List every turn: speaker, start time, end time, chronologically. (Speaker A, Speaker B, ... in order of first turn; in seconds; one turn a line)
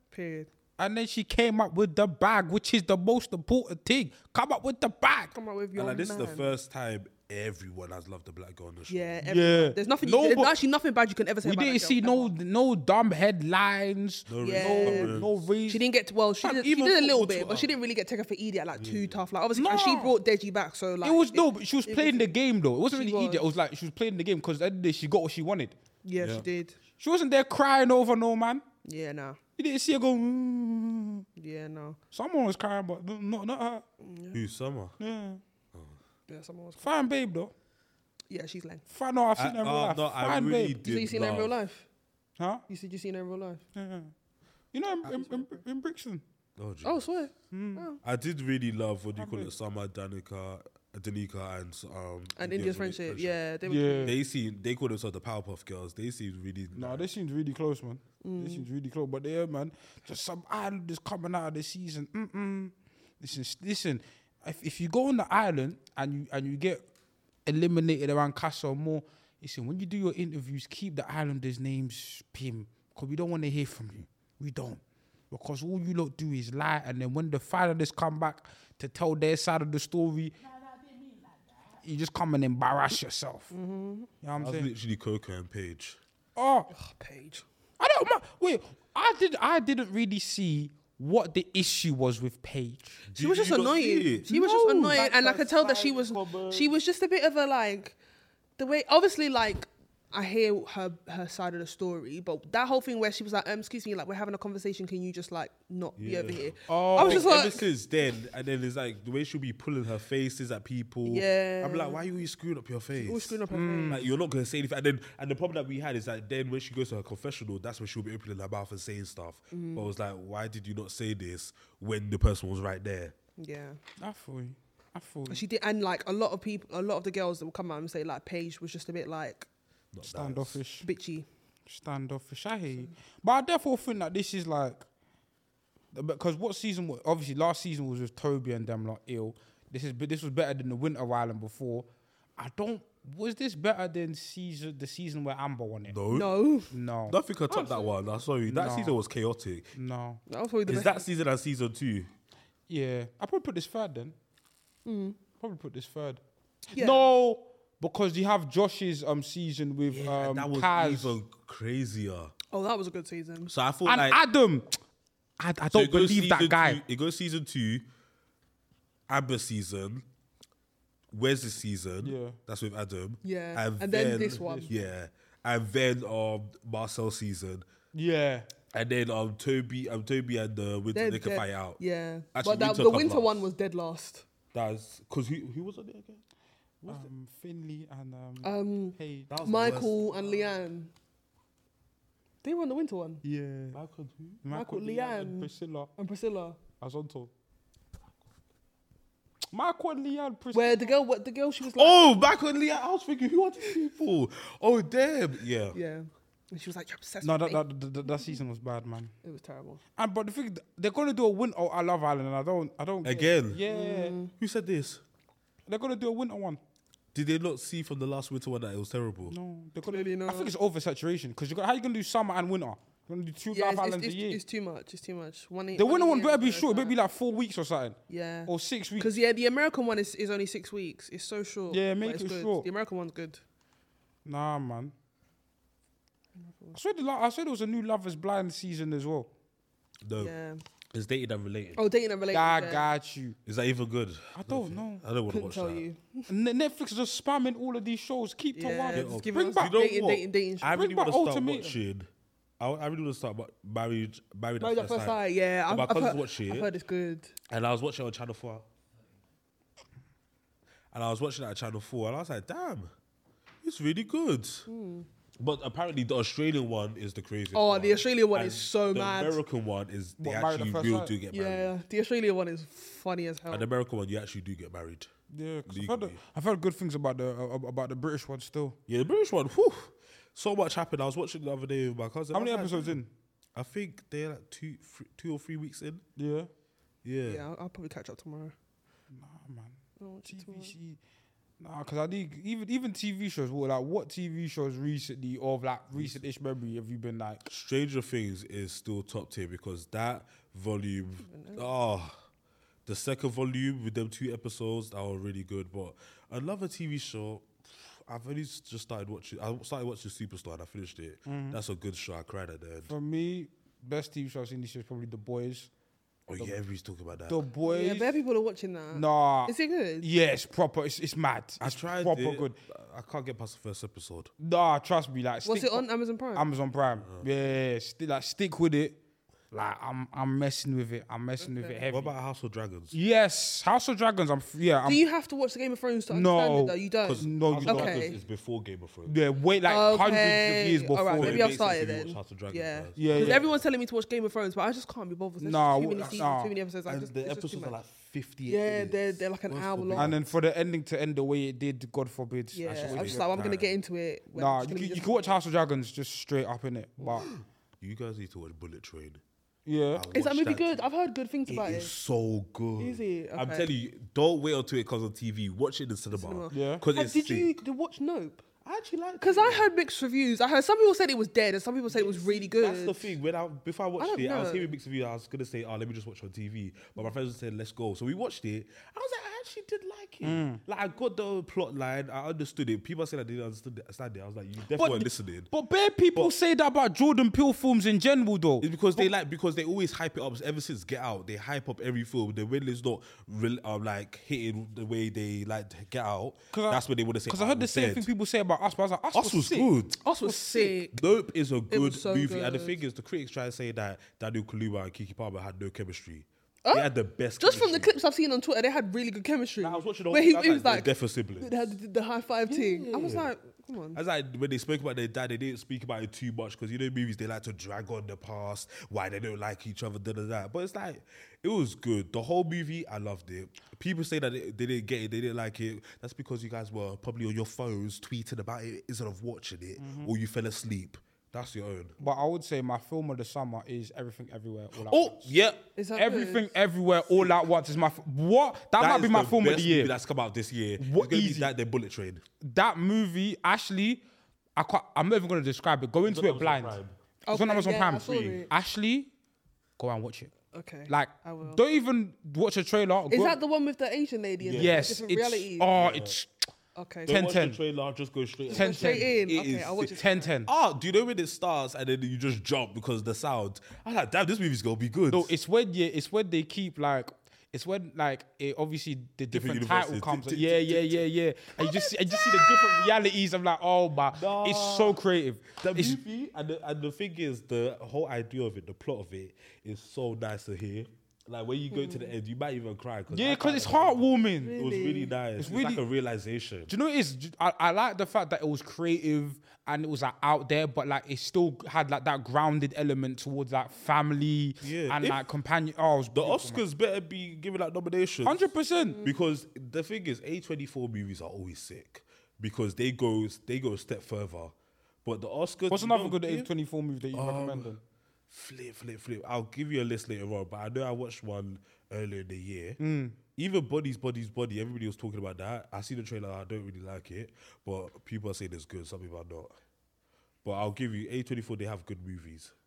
Speaker A: 0.1-0.5
Speaker B: 0.8-5.3
Speaker A: 5.3-6.5
Speaker C: 5.8-9.2
Speaker A: 8.9-12.3
Speaker B: 9.2-10.6
Speaker B: 11.4-15.8
Speaker C: 14.3-15.4
Speaker A: 14.4-15.2
Speaker A: 15.7-22.3
Speaker C: 16.4-17.7
Speaker C: 18.8-19.2
Speaker B: 19.6-20.2
Speaker B: 21.0-25.7
Speaker A: 22.9-23.4
Speaker A: 26.1-26.8
Speaker C: 26.2-26.4
Speaker B: 27.0-28.6
Speaker A: 28.9-29.4
Speaker B: 29.6-31.2
Speaker A: 31.4-32.0
Speaker B: 32.1-33.8
Speaker A: 34.0-34.4
Speaker C: 34.3-35.0
Speaker B: 35.0-35.4
Speaker A: 36.3-36.9
Speaker B: 36.8-37.5
Speaker A: 38.3-38.8
Speaker B: 38.9-40.8
Speaker C: 39.4-41.6
Speaker A: 40.8-41.9
Speaker B: 42.4-42.6
Speaker A: 42.7-43.6
Speaker B: 43.7-44.1
Speaker B: 44.7-46.2
Speaker A: 45.2-45.4
Speaker C: 46.6-47.0
Speaker A: 46.8-48.0
Speaker B: 47.5-47.9
Speaker C: 48.0-53.4
Speaker B: 49.2-49.5
Speaker A: 52.4-54.1
Speaker B: 53.7-54.2
Speaker C: 54.0-57.0
Speaker B: 56.7-66.8
Speaker A: 58.2-58.7
Speaker B: 67.5-80.4
Speaker B: 81.8-83.5
Speaker A: 83.5-84.1
Speaker B: 84.2-84.7
Speaker C: 84.4-86.0
Speaker B: 86.4-86.7
Speaker A: 86.7-87.5
Speaker B: 87.8-93.0
Speaker C: 93.1-96.7
Speaker A: 93.1-98.0
Speaker B: 94.3-95.0
Speaker A: 98.6-107.7
Speaker C: 106.0-123.1
Speaker B: 106.7-107.3
Speaker A: 111.0-112.0
Speaker A: 113.0-114.0
Speaker B: 113.5-114.1
Speaker A: 119.5-119.9
Speaker A: 123.4-123.8
Speaker B: 124.0-125.4
Speaker A: 125.3-129.5
Speaker C: 129.9-130.6
Speaker B: 130.0-130.9
Speaker A: 130.8-131.3
Speaker B: 131.7-134.8
Speaker B: 135.9-146.0
Speaker C: 145.9-146.3
Speaker A: 146.1-146.7
Speaker B: 146.7-147.2
Speaker C: 147.1-149.7
Speaker A: 147.5-147.9
Speaker B: 148.5-149.0
Speaker B: 149.8-150.2
Speaker A: 150.3-151.1
Speaker C: 150.7-152.1
Speaker B: 152.7-154.1
Speaker A: 154.9-155.2
Speaker B: 155.4-156.2
Speaker B: 156.7-161.2
Speaker A: 156.7-157.1
Speaker C: 159.9-162.3
Speaker A: 162.5-163.5
Speaker C: 163.5-164.2
Speaker B: 163.8-164.7
Speaker B: 165.4-166.8
Speaker C: 165.7-167.8
Speaker C: 169.1-170.1
Speaker C: 171.1-177.7
Speaker B: 172.0-172.4
Speaker A: 173.2-174.7
Speaker B: 174.3-174.7
Speaker B: 177.9-178.5
Speaker C: 178.7-181.8
Speaker A: 180.9-184.3
Speaker C: 182.3-183.5
Speaker C: 184.5-186.2
Speaker C: 186.8-187.1
Speaker B: 186.9-189.3
Speaker A: 188.4-190.9
Speaker C: 189.3-190.5
Speaker A: 192.4-193.2
Speaker B: 193.2-193.8
Speaker C: 193.7-194.4
Speaker B: 194.4-195.9
Speaker A: 194.5-196.6
Speaker B: 196.8-197.3
Speaker B: 199.5-200.9
Speaker A: 200.5-202.2
Speaker C: 201.7-205.8
Speaker A: 205.7-208.4
Speaker B: 207.2-209.1
Speaker A: 209.2-209.8
Speaker B: 210.0-214.2
Speaker C: 213.0-213.6
Speaker A: 213.7-214.3
Speaker C: 214.4-215.0
Speaker B: 215.7-216.6
Speaker C: 217.1-219.4
Speaker B: 219.3-224.4
Speaker A: 219.9-220.5
Speaker A: 223.5-226.9
Speaker B: 225.7-229.1
Speaker A: 228.1-233.4
Speaker B: 231.7-232.7
Speaker B: 234.2-234.9
Speaker A: 236.4-236.8
Speaker B: 236.7-239.3
Speaker C: 240.0-240.3
Speaker A: 240.2-240.6
Speaker C: 240.9-241.8
Speaker A: 241.8-242.9
Speaker B: 242.3-243.4
Speaker C: 243.4-245.8
Speaker B: 244.3-245.0
Speaker A: 245.3-246.3
Speaker B: 246.3-249.7
Speaker A: 248.5-250.7
Speaker C: 248.9-252.1
Speaker B: 250.7-251.8
Speaker C: 252.6-256.7
Speaker A: 254.6-257.3
Speaker C: 257.5-258.7
Speaker C: 260.9-262.9
Speaker C: 263.6-264.6
Speaker A: 264.7-265.1
Speaker C: 265.4-271.7
Speaker A: 267.5-269.4
Speaker B: 270.2-271.1
Speaker A: 271.3-273.7
Speaker C: 273.5-275.1
Speaker B: 275.3-278.8
Speaker C: 275.7-276.2
Speaker C: 278.9-282.9
Speaker B: 282.3-283.1
Speaker C: 283.6-286.0
Speaker B: 286.2-286.5
Speaker C: 287.0-287.4
Speaker A: 287.3-288.6
Speaker B: 289.1-291.0
Speaker A: 290.0-290.7
Speaker B: 291.6-297.5
Speaker C: 295.9-296.2
Speaker C: 297.5-302.1
Speaker A: 301.2-301.7
Speaker C: 302.9-312.9
Speaker B: 311.3-311.6
Speaker B: 312.9-315.7
Speaker C: 316.3-317.4
Speaker B: 317.3-318.2
Speaker A: 317.6-320.1
Speaker B: 318.9-322.6
Speaker C: 321.6-324.3
Speaker B: 324.4-329.0
Speaker A: 325.4-326.4
Speaker C: 327.0-327.3
Speaker B: 329.5-332.1
Speaker A: 331.4-331.8
Speaker C: 331.9-333.0
Speaker B: 332.9-335.0
Speaker A: 334.9-338.2
Speaker B: 336.1-338.1
Speaker C: 337.1-339.1
Speaker B: 339.1-341.5
Speaker A: 339.6-347.8
Speaker C: 341.2-343.5
Speaker B: 343.0-343.4
Speaker B: 345.4-346.5
Speaker C: 346.9-350.2
Speaker A: 348.5-350.2
Speaker B: 349.9-353.3
Speaker A: 352.5-355.2
Speaker C: 352.6-353.7
Speaker B: 354.4-357.3
Speaker C: 357.1-359.2
Speaker B: 359.7-360.1
Speaker C: 359.9-360.8
Speaker A: 360.1-361.9
Speaker C: 361.5-367.5
Speaker A: 362.8-363.7
Speaker A: 366.1-368.4
Speaker B: 366.5-366.9
Speaker C: 368.6-369.7
Speaker A: 369.2-373.1
Speaker C: 371.9-385.5
Speaker A: 374.0-374.7
Speaker B: 380.2-380.6
Speaker B: 384.7-389.1
Speaker C: 388.6-398.1
Speaker B: 396.5-399.7
Speaker C: 399.1-400.0
Speaker A: 400.0-401.0
Speaker B: 400.2-400.7
Speaker C: 400.9-407.9
Speaker A: 401.7-402.8
Speaker A: 406.6-414.0
Speaker C: 409.6-411.7
Speaker C: 412.5-413.3
Speaker C: 413.9-431.9
Speaker B: 429.8-430.1
Speaker B: 432.0-435.3
Speaker C: 434.8-435.6
Speaker A: 435.8-436.5
Speaker B: 435.9-439.9
Speaker C: 438.8-442.2
Speaker B: 440.8-441.5
Speaker B: 442.4-444.0
Speaker B: 444.6-446.8
Speaker C: 446.1-446.9
Speaker A: 447.3-448.5
Speaker B: 447.3-449.1
Speaker C: 447.9-448.4
Speaker B: 449.8-450.3
Speaker A: 450.5-451.6
Speaker B: 450.9-453.4
Speaker A: 453.1-455.7
Speaker C: 454.4-455.0
Speaker B: 454.6-456.3
Speaker C: 455.7-456.2
Speaker A: 456.8-457.2
Speaker B: 457.1-457.6
Speaker C: 457.1-465.3
Speaker A: 458.5-460.3
Speaker B: 458.5-459.1
Speaker B: 459.9-460.5
Speaker B: 465.1-476.0
Speaker C: 469.3-471.1
Speaker A: 471.6-472.9
Speaker C: 474.1-475.0
Speaker C: 475.6-486.7
Speaker A: 481.7-482.1
Speaker B: 483.1-484.6
Speaker A: 484.4-485.1
Speaker B: 485.4-485.8
Speaker B: 486.7-496.6
Speaker C: 494.6-495.3
Speaker C: 496.1-498.4
Speaker B: 498.2-499.0
Speaker A: 498.7-499.2
Speaker C: 499.0-506.5
Speaker B: 505.7-507.8
Speaker C: 507.1-507.7
Speaker C: 508.3-512.8
Speaker B: 512.8-513.2
Speaker C: 513.4-519.5
Speaker C: 520.4-522.5